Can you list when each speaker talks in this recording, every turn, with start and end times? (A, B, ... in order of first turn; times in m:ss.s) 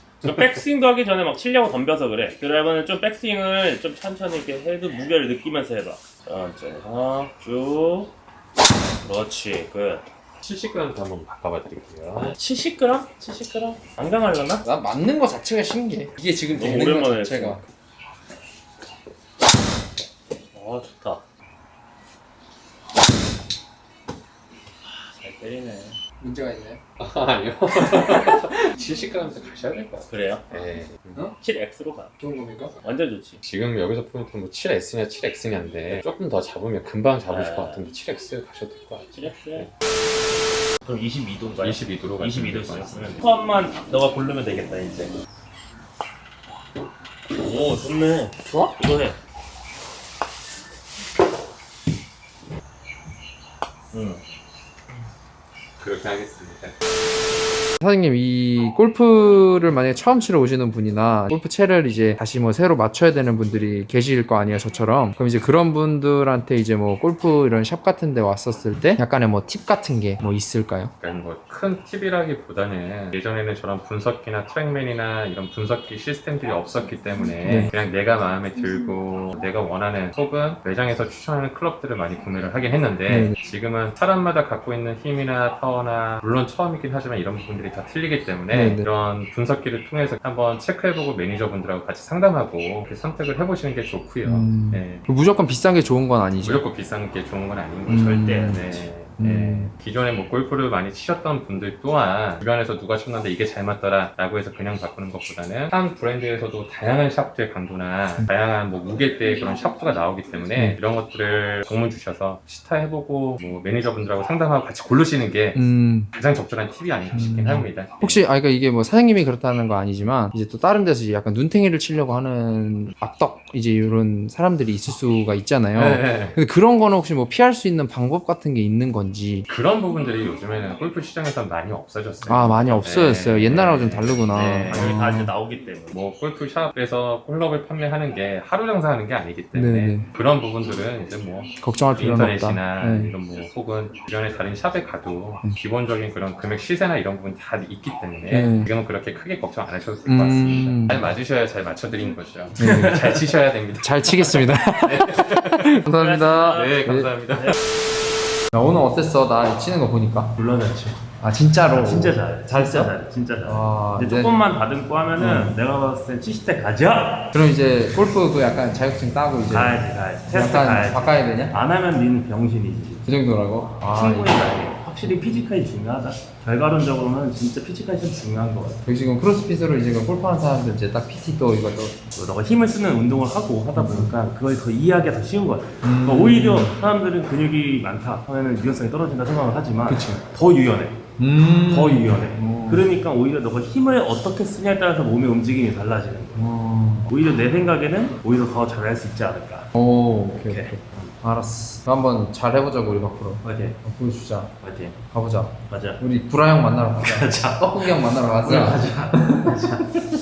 0:00.2-0:08.1 A
0:09.0-0:10.0 A
0:10.4-0:12.4 B
0:12.2-0:14.6 A
0:14.6-0:17.6 C
0:16.5-0:17.6 A
0:20.5-0:21.2 A
0:24.9-0:26.0 A
0:26.2-0:26.8 C
0:27.0-0:31.2 B
0:30.1-0:30.4 A
0:31.4-0:32.1 A
0:32.2-0:32.7 C
0:32.8-0:33.4 A
0:33.4-0:39.7 B
0:37.3-0:37.8 A
0:39.1-0:39.7 A
0:40.8-0:45.1 A
0:41.6-0:43.2 B
0:47.4-0:49.2 A
0:48.4-0:48.8 C
0:53.9-0:54.2 A
0:55.8-0:56.7 B
0:57.8-1:10.9 C
1:11.0-1:35.0 B
1:17.4-1:17.7 C
1:23.1-1:23.4 C
1:28.5-1:28.9 C
1:34.2-1:36.7 C
1:36.4-1:55.6 B
1:37.9-1:39.7 C
1:38.0-1:38.6 A
1:55.6-1:56.1 C
1:56.1-1:58.2 B
1:57.1-2:09.5 C
2:05.7-2:06.4 B
2:09.5-2:15.0 B
2:12.3-2:15.3 C
2:14.4-2:16.0 A
2:15.9-2:35.8 B
2:19.5-2:20.1 C
2:21.6-2:23.2 C
2:28.3-2:28.7 C
2:30.1-2:31.1 C
2:32.6-2:33.1 C
2:32.6-2:33.2 A
2:33.8-2:37.1 C
2:35.8-2:36.7 A
2:36.5-2:37.5 B
2:38.5-2:40.3 C
2:40.4-2:41.0 A
2:41.2-2:44.4 C
2:41.7-2:47.3 A
2:45.2-2:45.6 C
2:47.3-2:51.6 C
2:49.5-2:53.1 A
2:53.0-2:54.5 C
2:53.8-2:58.8 A
2:58.8-3:02.0 C
3:02.1-3:11.0 A
3:03.8-3:04.2 C
3:05.8-3:06.8 C
3:09.9-3:10.2 C
3:11.2-3:12.9 C
3:11.6-3:16.4 A
3:16.4-3:17.1 C
3:17.1-3:19.7 A
3:19.7-3:24.5 C
3:20.4-3:21.1 A
3:23.4-3:23.8 A
3:24.6-3:25.0 A
3:25.1-3:29.8 C
3:25.7-3:26.0 A
3:27.0-3:30.0 A